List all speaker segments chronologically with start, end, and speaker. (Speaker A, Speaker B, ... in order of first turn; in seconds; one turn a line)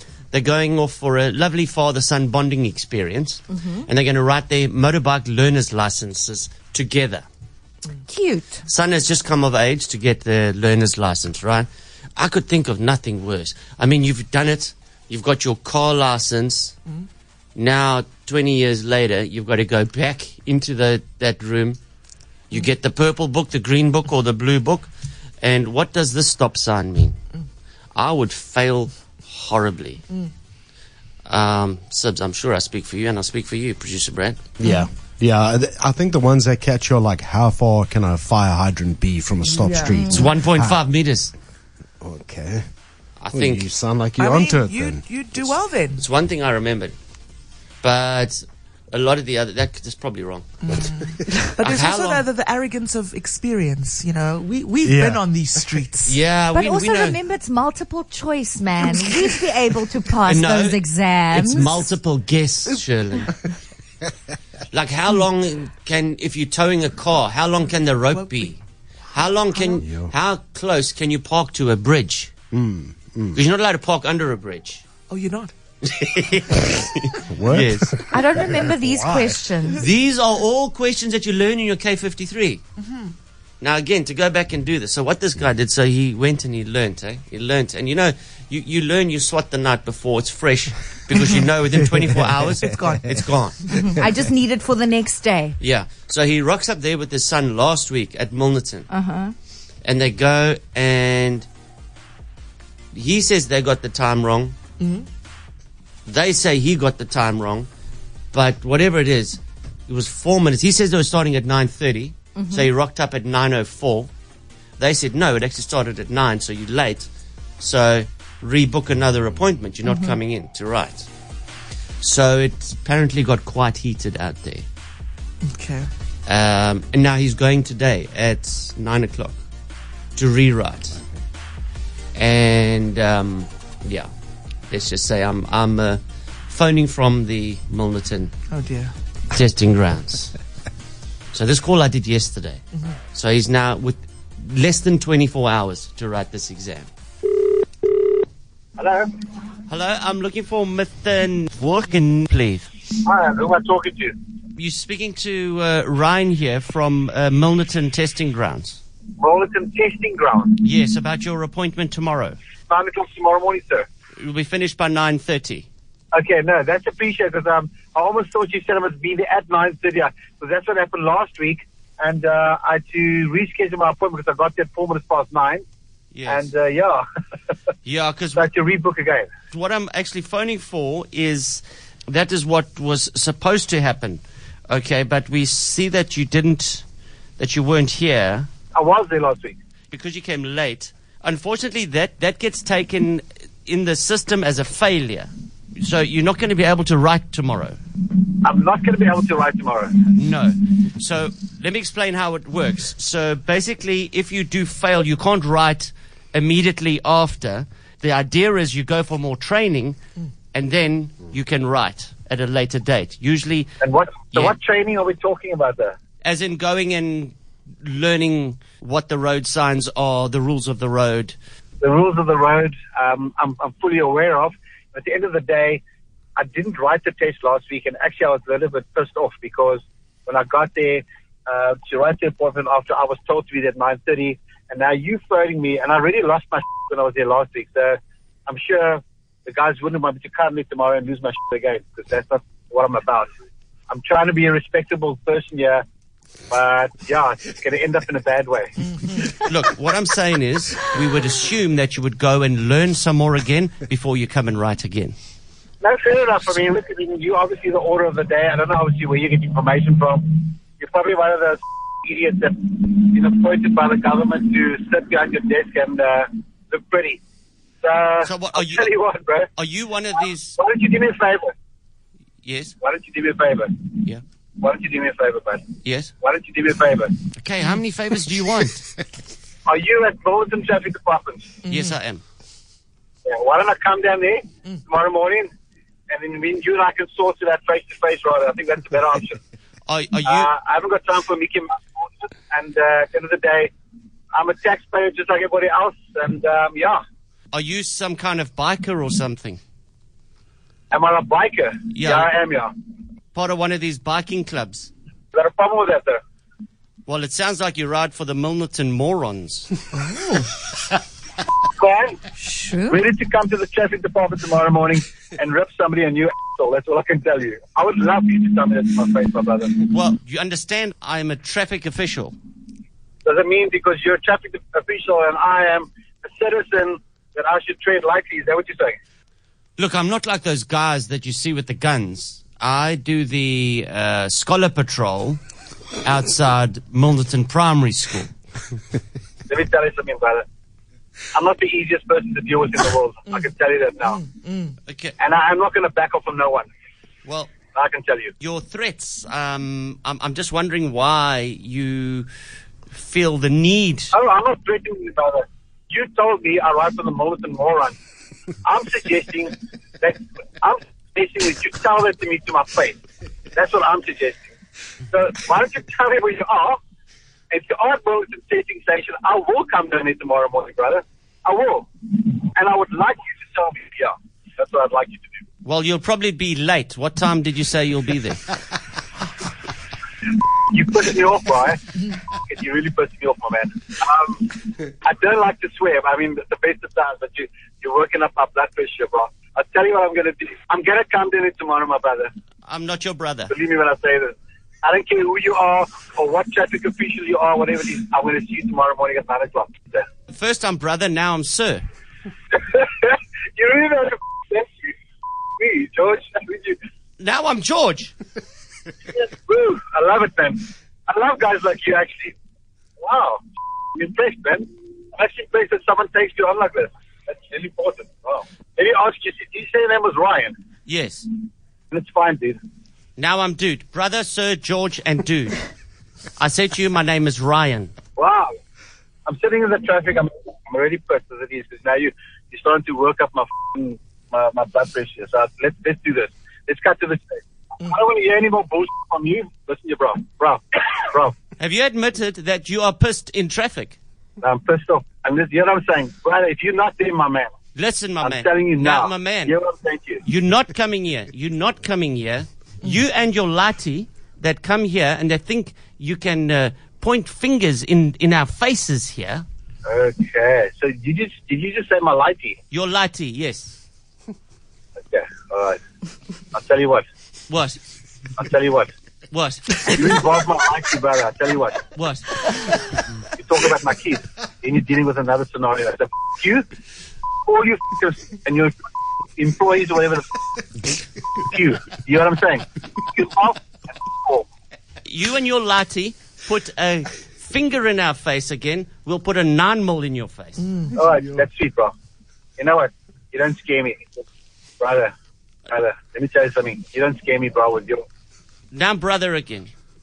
Speaker A: 0.3-7.2
Speaker B: 8.1-8.6
Speaker A: 8.7-16.8
Speaker A: 17.6-21.8
Speaker A: 22.5-24.9
Speaker A: 25.4-27.2
Speaker A: 27.9-30.0
Speaker A: 31.2-34.4
Speaker C: 34.6-40.8
Speaker D: 39.6-40.0
Speaker B: 39.9-40.3
Speaker A: 40.1-41.3
Speaker C: 42.0-42.7
Speaker A: 43.2-43.7
Speaker C: 43.3-45.0
Speaker D: 44.2-46.0
Speaker A: 45.4-47.0
Speaker A: 47.8-50.5
Speaker D: 50.6-56.2
Speaker A: 51.6-52.2
Speaker C: 54.8-55.2
Speaker A: 56.0-57.2
Speaker B: 56.5-61.9
Speaker A: 60.2-63.4
Speaker A: 64.7-72.3
Speaker C: 69.8-70.1
Speaker C: 72.5-73.4
Speaker A: 73.3-74.8
Speaker D: 75.1-75.5
Speaker A: 75.8-78.1
Speaker C: 77.3-79.4
Speaker B: 78.1-79.8
Speaker A: 79.7-82.6
Speaker D: 82.8-83.1
Speaker A: 83.6-94.0
Speaker D: 92.6-93.1
Speaker B: 93.7-95.6
Speaker A: 95.6-98.9
Speaker B: 98.9-99.3
Speaker A: 99.8-101.5
Speaker A: 102.9-104.6
Speaker D: 104.8-105.1
Speaker A: 106.0-107.7
Speaker A: 108.3-114.1
Speaker B: 112.3-112.7
Speaker A: 114.8-117.1
Speaker A: 117.6-121.1
Speaker B: 119.8-120.1
Speaker A: 122.0-124.7
Speaker D: 125.5-125.9
Speaker A: 126.3-129.4
Speaker A: 130.2-131.0
Speaker A: 132.1-134.1
Speaker A: 134.7-138.3
Speaker D: 138.5-138.9
Speaker A: 139.3-140.3
Speaker A: 141.3-146.9
Speaker E: 148.8-149.1
Speaker A: 149.7-152.7
Speaker E: 153.0-154.1
Speaker A: 154.5-158.8
Speaker E: 159.2-160.6
Speaker A: 160.6-162.4
Speaker E: 162.7-163.9
Speaker A: 164.2-165.7
Speaker E: 166.1-175.6
Speaker A: 176.1-176.4
Speaker E: 176.3-177.0
Speaker A: 177.8-178.5
Speaker E: 178.3-179.3
Speaker A: 179.5-186.8
Speaker A: 187.4-188.5
Speaker E: 188.7-189.6
Speaker A: 189.9-197.8
Speaker E: 198.4-200.0
Speaker A: 200.1-210.0
Speaker A: 210.5-213.7
Speaker E: 213.8-215.9
Speaker A: 216.2-221.4
Speaker E: 221.8-225.8
Speaker E: 226.4-243.3
Speaker E: 243.9-245.8
Speaker E: 246.5-249.1
Speaker A: 249.4-255.2
Speaker E: 255.8-267.2
Speaker E: 267.8-269.5
Speaker A: 268.2-268.9
Speaker A: 269.6-270.6
Speaker E: 270.6-271.5
Speaker A: 272.4-272.8
Speaker E: 272.8-273.9
Speaker E: 274.6-275.7
Speaker A: 275.8-276.1
Speaker E: 276.2-277.2
Speaker A: 277.3-278.9
Speaker E: 279.6-281.5
Speaker A: 281.7-282.2
Speaker E: 283.2-285.5
Speaker E: 286.1-289.4
Speaker A: 289.9-290.5
Speaker E: 290.2-293.7
Speaker E: 294.3-297.0
Speaker A: 297.5-299.6
Speaker E: 300.9-302.7
Speaker A: 301.9-302.3
Speaker A: 303.3-304.9
Speaker E: 305.3-306.2
Speaker A: 307.1-309.8
Speaker D: 310.1-310.4
Speaker E: 311.8-312.2
Speaker B: 312.4-313.0
Speaker E: 312.9-319.7
Speaker A: 319.8-322.4
Speaker E: 323.2-329.0
Speaker A: 329.8-335.4
Speaker A: 336.0-338.3
Speaker E: 339.5-340.4
Speaker E: 341.3-344.2
Speaker A: 344.9-345.1
Speaker E: 345.2-346.7
Speaker A: 347.2-347.5
Speaker E: 347.7-348.3
Speaker A: 348.4-352.3
Speaker A: 352.9-354.1
Speaker E: 354.1-357.9
Speaker E: 358.6-363.0
Speaker E: 363.5-364.5
Speaker E: 365.1-366.8
Speaker E: 367.5-375.4
Speaker A: 375.6-378.4
Speaker E: 380.6-381.8
Speaker E: 382.4-392.3
Speaker A: 392.6-393.5
Speaker E: 393.5-400.1
Speaker A: 400.3-401.8
Speaker E: 402.5-404.9
Speaker E: 405.6-406.8
Speaker A: 407.2-408.1
Speaker E: 409.1-412.3
Speaker E: 413.0-413.4
Speaker E: 413.9-420.5
Speaker A: 420.9-421.3
Speaker E: 421.9-422.6
Speaker A: 423.2-425.6
Speaker A: 426.4-427.9
Speaker E: 428.2-428.6
Speaker E: 429.2-441.4
Speaker A: 441.6-444.0
Speaker E: 444.4-447.5
Speaker A: 447.7-449.5
Speaker E: 448.2-450.2
Speaker A: 450.2-459.4
Speaker E: 459.9-462.6
Speaker A: 462.7-463.8
Speaker E: 465.1-465.8
Speaker E: 466.5-467.0
Speaker A: 467.5-467.8
Speaker E: 468.4-468.9
Speaker A: 469.3-470.1
Speaker E: 469.8-471.8
Speaker A: 471.9-472.4
Speaker E: 473.3-476.6
Speaker E: 477.4-478.7
Speaker E: 479.4-480.3
Speaker E: 481.4-484.4
Speaker A: 485.1-490.7
Speaker E: 490.9-491.9
Speaker E: 492.6-494.2
Speaker E: 494.8-495.1
Speaker E: 495.7-498.0
Speaker A: 498.7-499.7